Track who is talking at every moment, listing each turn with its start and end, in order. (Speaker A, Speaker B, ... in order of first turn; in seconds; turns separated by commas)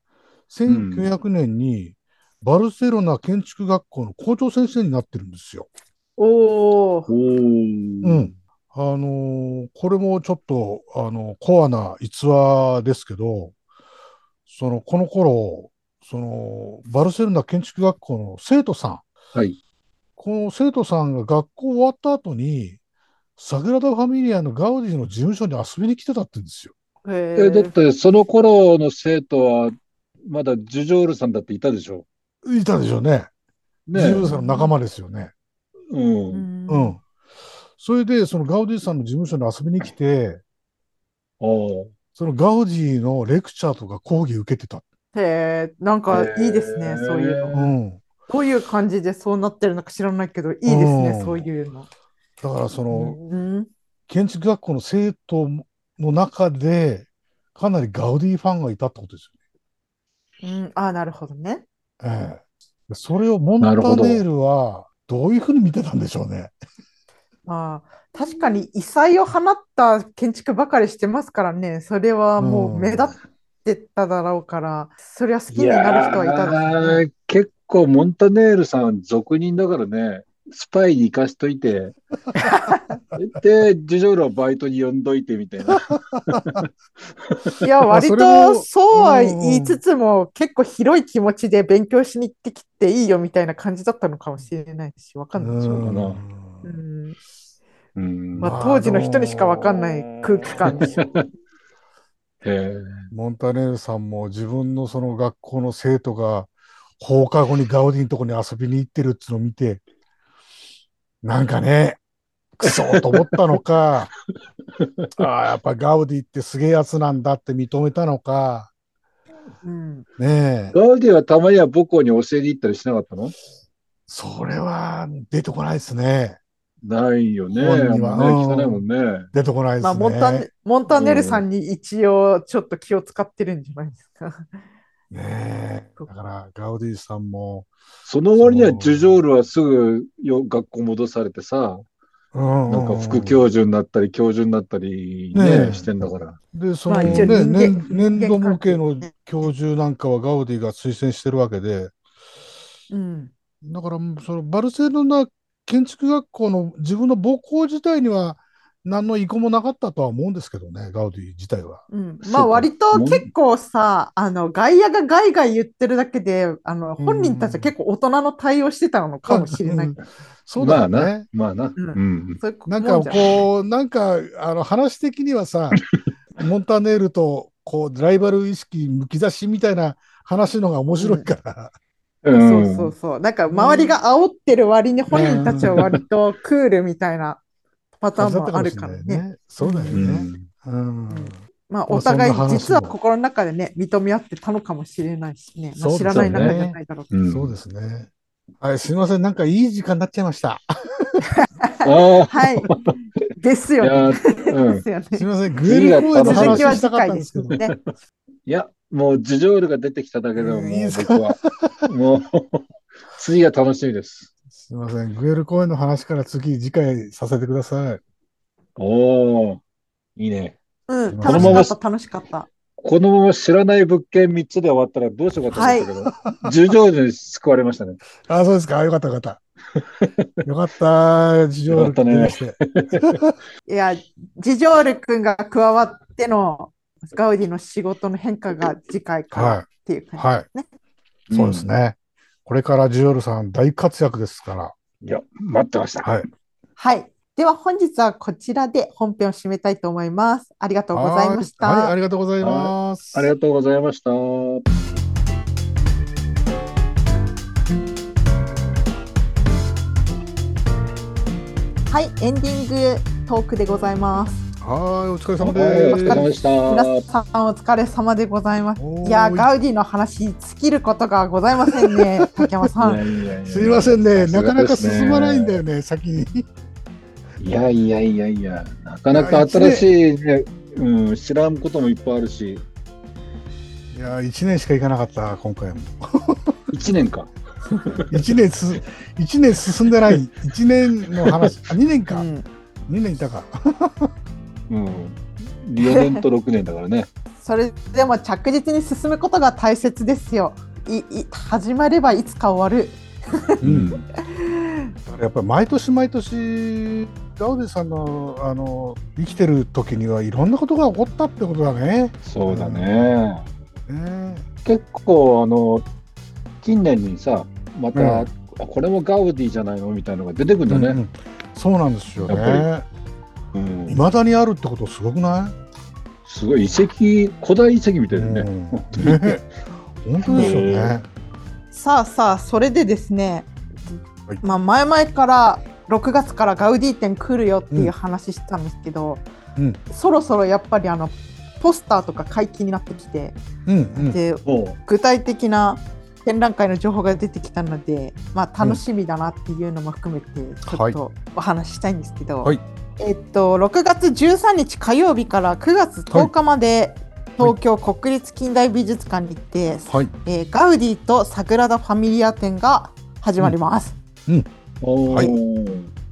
Speaker A: 0.5-5.7, Speaker B: 0.7-1.1, Speaker C: 6.2-7.1, Speaker B: 7.1-8.3, Speaker A: 8.0-13.5, Speaker A: 14.5-19.0, Speaker A: 20.2-22.8, Speaker A: 23.4-26.7, Speaker C: 27.1-27.7, Speaker B: 27.4-32.1, Speaker A: 32.4-33.3, Speaker B: 33.9-34.2, Speaker A: 33.9-35.3, Speaker C: 34.2-34.7, Speaker B: 35.9-36.5, Speaker C: 36.3-37.0, Speaker A: 36.7-37.0, Speaker A: 37.8-40.4, Speaker B: 41.4-41.9, Speaker A: 42.2-44.8, Speaker C: 45.1-47.7, Speaker B: 46.1-47.5, Speaker A: 47.5-48.0, Speaker C: 48.3-51.9, Speaker A: 50.7-51.5, Speaker A: 52.4-53.2, Speaker C: 52.9-53.7, Speaker A: 54.1-59.3, Speaker C: 60.4-61.6, Speaker A: 62.0-66.5, Speaker B: 63.6-64.2, Speaker C: 67.5-77.0, Speaker A: 72.4-73.1, Speaker B: 75.5-82.0, Speaker C: 82.4-83.0, Speaker B: 83.1-86.7, Speaker A: 85.8-86.6, Speaker B: 87.2-87.5, Speaker C: 87.6-96.0, Speaker A: 87.9-89.8, Speaker A: 95.4-96.7, Speaker B: 95.8-96.2, Speaker C: 96.6-97.2, Speaker B: 98.0-98.5, Speaker C: 98.4-101.0, Speaker A: 98.4-99.9, Speaker A: 100.4-101.0, Speaker B: 100.6-101.3, Speaker B: 102.4-103.1, Speaker A: 103.1-109.8, Speaker A: 111.2-112.0, Speaker A: 112.6-114.1, Speaker B: 112.6-113.6, Speaker B: 114.8-115.1, Speaker A: 115.2-118.7, Speaker C: 119.6-120.1, Speaker A: 120.2-120.8, Speaker B: 120.7-123.4, Speaker A: 124.1-126.4, Speaker B: 126.8-129.3, Speaker A: 127.5-128.8, Speaker A: 129.3-130.5, Speaker C: 129.8-134.5, Speaker B: 130.9-131.4, Speaker A: 135.1-137.7, Speaker B: 138.1-141.8, Speaker A: 138.4-139.2, Speaker A: 142.3-143.4, Speaker B: 142.7-146.4, Speaker A: 145.3-151.9, Speaker C: 146.9-149.1, Speaker B: 147.0-147.4, Speaker C: 152.9-153.3, Speaker A: 153.6-161.8, Speaker C: 161.9-170.0, Speaker B: 162.2-163.3, Speaker A: 167.0-167.7, Speaker A: 169.3-171.3, Speaker B: 170.6-172.4, Speaker C: 171.8-173.3, Speaker A: 172.7-175.8, Speaker A: 176.4-181.7, Speaker C: 181.0-181.3, Speaker B: 182.2-182.9, Speaker C: 182.3-187.4, Speaker A: 183.5-184.0, Speaker A: 185.1-185.8, Speaker B: 185.7-186.0, Speaker C: 188.0-190.0, Speaker A: 188.2-191.4, Speaker B: 189.9-190.5, Speaker C: 191.1-197.1, Speaker A: 191.9-192.9, Speaker A: 195.8-196.8, Speaker B: 196.1-196.6, Speaker B: 197.1-197.5, Speaker A: 197.3-198.1, Speaker A: 198.6-201.2, Speaker C: 201.3-202.7, Speaker B: 201.8-202.9, Speaker C: 203.4-205.3, Speaker B: 203.8-204.8, Speaker A: 205.1-207.6, Speaker B: 205.6-206.8, Speaker C: 205.9-207.7, Speaker B: 207.5-207.8, Speaker B: 208.5-214.3, Speaker A: 210.4-211.9, Speaker A: 214.6-218.0, Speaker B: 218.8-219.6, Speaker B: 220.2-220.6, Speaker C: 220.9-222.5, Speaker A: 221.1-221.7, Speaker B: 221.2-221.8, Speaker B: 222.8-228.0, Speaker C: 225.5-225.9, Speaker A: 226.1-226.6, Speaker A: 228.2-229.4, Speaker A: 230.4-233.3, Speaker B: 231.7-233.2, Speaker C: 233.7-240.7, Speaker A: 239.3-239.7, Speaker A: 240.2-240.5, Speaker B: 241.3-241.7, Speaker A: 241.3-244.7, Speaker B: 245.0-246.1, Speaker C: 246.8-252.0, Speaker A: 250.9-253.3, Speaker B: 252.4-254.7, Speaker C: 261.9-264.4, Speaker A: 264.6-266.2, Speaker B: 265.4-267.0, Speaker C: 265.9-273.0, Speaker A: 268.8-269.5, Speaker A: 271.8-272.5, Speaker B: 272.8-275.6, Speaker A: 273.5-276.5, Speaker B: 277.4-282.6, Speaker A: 279.1-279.9, Speaker A: 283.9-286.6, Speaker B: 286.7-287.3, Speaker B: 287.9-288.2, Speaker A: 288.1-292.3, Speaker B: 291.1-291.6, Speaker C: 292.1-292.5, Speaker A: 292.9-294.1, Speaker B: 294.7-297.1, Speaker C: 295.8-296.2, Speaker C: 297.4-303.4, Speaker B: 303.6-304.0, Speaker A: 303.6-304.0, Speaker C: 304.2-304.9, Speaker A: 305.1-313.1, Speaker B: 312.2-313.5, Speaker A: 313.9-314.4, Speaker B: 314.6-315.9, Speaker B: 316.6-321.0, Speaker A: 317.9-318.3, Speaker A: 320.7-322.9, Speaker B: 322.2-322.7, Speaker B: 323.5-324.0, Speaker A: 323.9-325.6, Speaker B: 326.3-329.4, Speaker A: 328.1-329.4, Speaker A: 330.0-331.1, Speaker B: 330.2-331.0, Speaker C: 331.7-339.2, Speaker C: 339.9-343.4, Speaker A: 343.7-344.2, Speaker C: 344.0-364.0, Speaker B: 344.4-344.8, Speaker A: 350.7-351.0, Speaker B: 364.8-365.9, Speaker A: 365.1-365.4